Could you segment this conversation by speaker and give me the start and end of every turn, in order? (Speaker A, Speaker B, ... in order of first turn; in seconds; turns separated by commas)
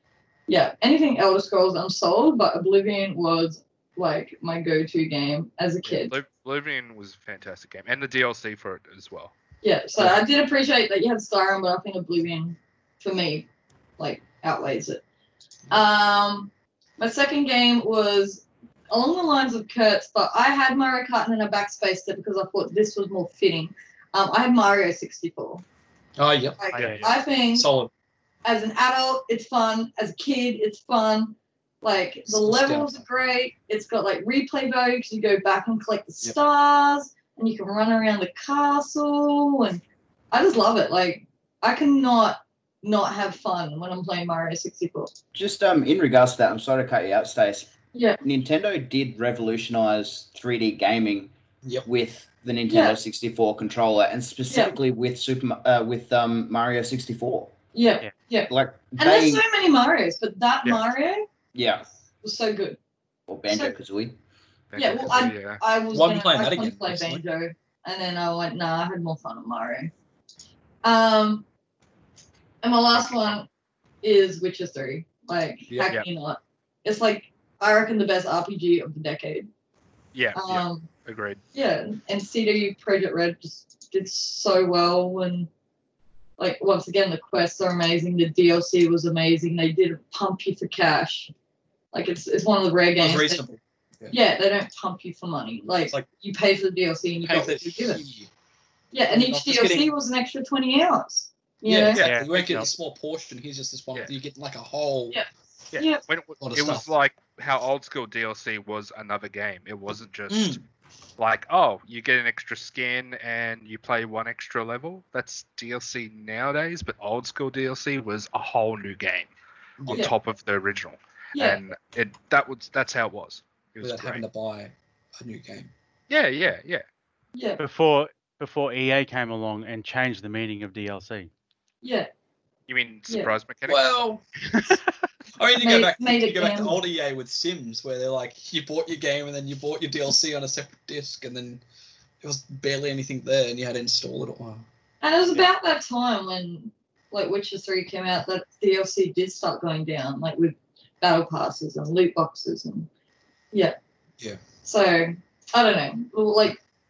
Speaker A: 0.5-6.1, Speaker B: 5.8-9.3, Speaker A: 9.6-13.5, Speaker A: 14.0-15.0, Speaker A: 15.7-25.6, Speaker C: 26.2-27.9, Speaker A: 26.6-27.7, Speaker B: 26.7-27.1, Speaker A: 28.4-45.1, Speaker C: 32.2-33.0, Speaker D: 45.3-47.7, Speaker A: 47.9-48.2, Speaker D: 48.2-51.3, Speaker D: 51.8-57.5, Speaker A: 52.7-53.0, Speaker A: 54.5-54.7, Speaker A: 57.7-61.2, Speaker D: 58.5-59.4, Speaker D: 61.5-61.9, Speaker A: 62.2-62.8, Speaker D: 63.3-64.2, Speaker A: 63.5-63.7, Speaker B: 64.7-65.6, Speaker A: 64.8-69.9, Speaker C: 65.9-67.2, Speaker A: 70.8-71.4, Speaker A: 72.6-73.5, Speaker B: 72.9-73.4, Speaker A: 74.0-79.5, Speaker B: 80.1-81.4, Speaker A: 80.3-80.9, Speaker A: 81.5-85.5, Speaker A: 86.4-91.3, Speaker A: 91.9-93.4, Speaker C: 93.0-94.2, Speaker A: 94.1-98.0, Speaker C: 97.2-98.3, Speaker A: 98.9-102.0, Speaker C: 99.1-99.9, Speaker C: 101.6-105.2, Speaker E: 102.0-102.7, Speaker A: 105.1-106.0, Speaker B: 105.7-110.6, Speaker C: 106.4-106.9, Speaker C: 110.3-110.6, Speaker B: 111.2-119.3, Speaker C: 119.8-120.1, Speaker B: 119.8-124.2, Speaker A: 121.3-121.6, Speaker C: 123.8-125.7, Speaker B: 126.1-126.8, Speaker A: 127.3-127.6, Speaker E: 127.6-131.3, Speaker A: 131.8-132.1, Speaker B: 132.7-133.9, Speaker C: 133.7-134.2, Speaker E: 134.5-134.8, Speaker C: 135.3-141.6, Speaker A: 135.6-136.8, Speaker C: 142.2-144.7, Speaker A: 145.0-152.9, Speaker A: 154.6-156.6